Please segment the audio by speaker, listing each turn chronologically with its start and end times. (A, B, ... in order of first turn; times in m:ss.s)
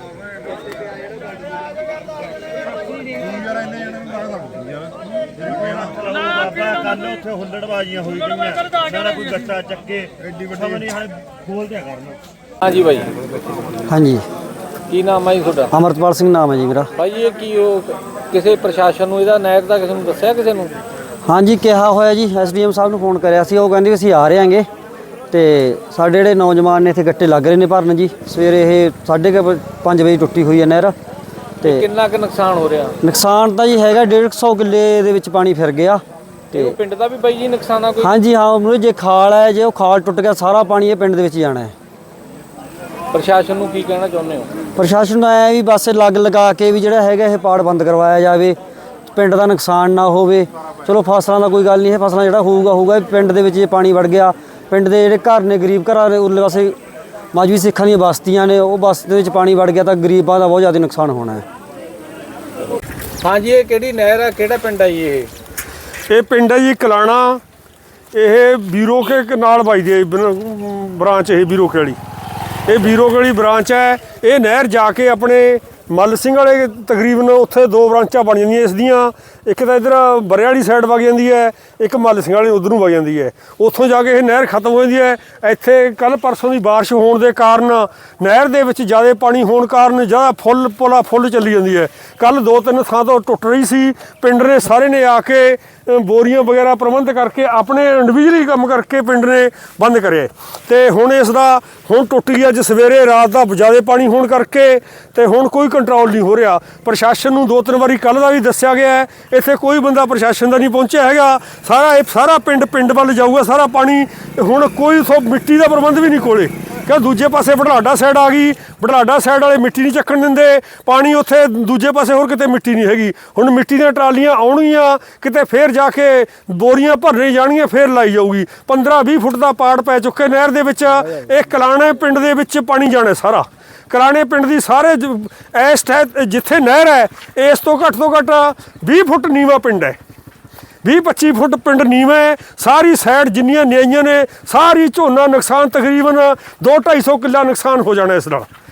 0:05.4-0:12.2 A
0:12.6-0:13.1 B
0:13.9-0:14.2 C
0:14.9-0:15.7 B
0:15.7-0:16.9 C
0:17.0-0:20.7 B
0:21.2-0:24.7 C
0:25.3-0:30.9 C
0:31.6-0:33.0 B
0:33.0-0:36.0 C
0:36.5-0:38.1 B
0:38.0-0:41.7 C
0:43.1-0:44.5 B
0:44.8-0:48.6 C
0:49.1-0:56.7 C
0:57.3-1:01.4 C
1:03.2-1:05.3 B
1:06.1-1:07.4 D
1:08.1-1:12.0 D
1:12.7-2:20.0 D
2:20.8-2:28.5 D